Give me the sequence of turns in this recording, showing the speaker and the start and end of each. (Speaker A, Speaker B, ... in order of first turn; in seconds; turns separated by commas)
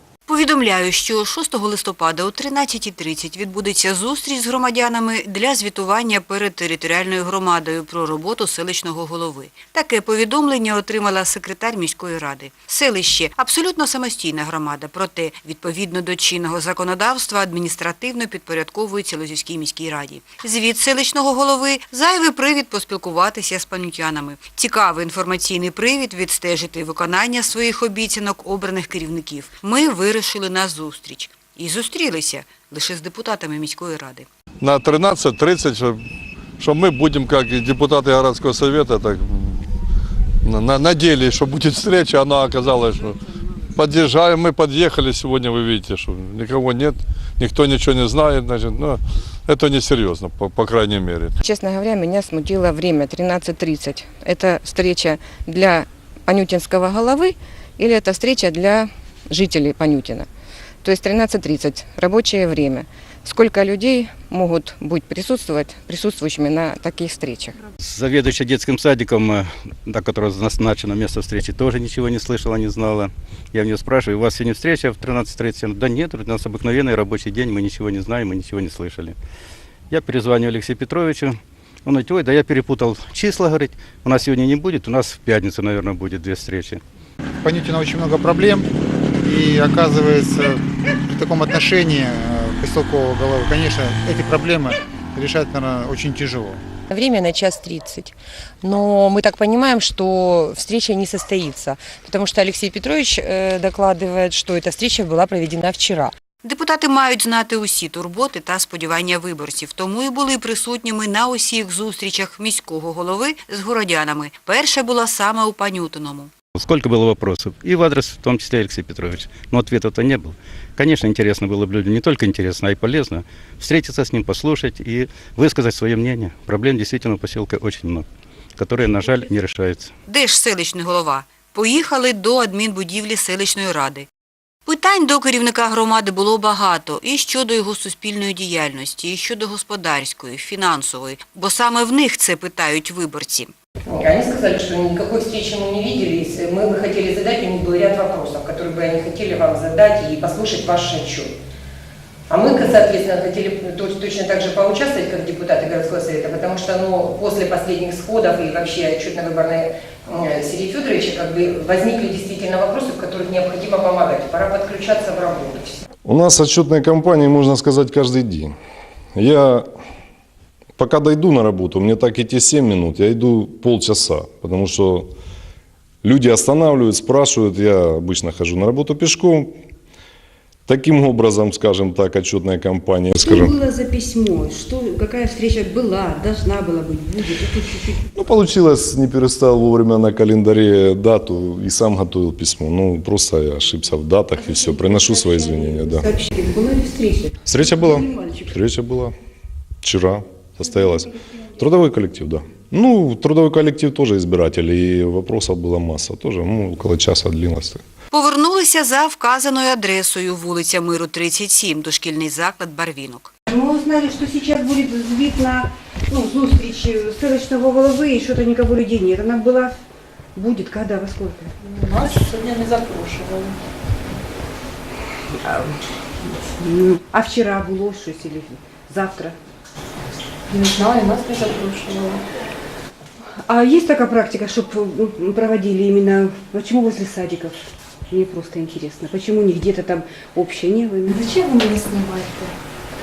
Speaker A: 0.3-34.3, Speaker B: 34.6-36.0, Speaker B: 36.6-39.6, Speaker B: 40.4-43.2, Speaker B: 43.8-51.4, Speaker C: 51.4-60.3, Speaker C: 60.8-67.5, Speaker D: 67.8-79.2, Speaker D: 79.9-86.8, Speaker E: 87.4-88.7, Speaker E: 89.2-96.6, Speaker C: 96.9-106.1, Speaker A: 106.4-116.3, Speaker D: 116.6-128.1, Speaker D: 128.6-129.9, Speaker A: 130.1-134.1, Speaker A: 134.7-143.5, Speaker C: 143.9-151.3, Speaker C: 152.3-165.8, Speaker F: 166.1-168.5, Speaker F: 169.2-169.7, Speaker F: 170.8-175.1, Speaker F: 176.0-179.6, Speaker F: 180.7-183.6, Speaker G: 183.2-188.0, Speaker F: 188.1-196.1, Speaker C: 196.0-197.3, Speaker F: 197.4-199.1, Speaker F: 199.8-207.8, Speaker A: 208.1-213.3, Speaker G: 213.5-219.8, Speaker G: 220.4-221.5, Speaker H: 221.7-223.6, Speaker G: 225.4-229.4, Speaker H: 230.5-232.2, Speaker G: 233.5-241.3, Speaker H: 241.1-242.5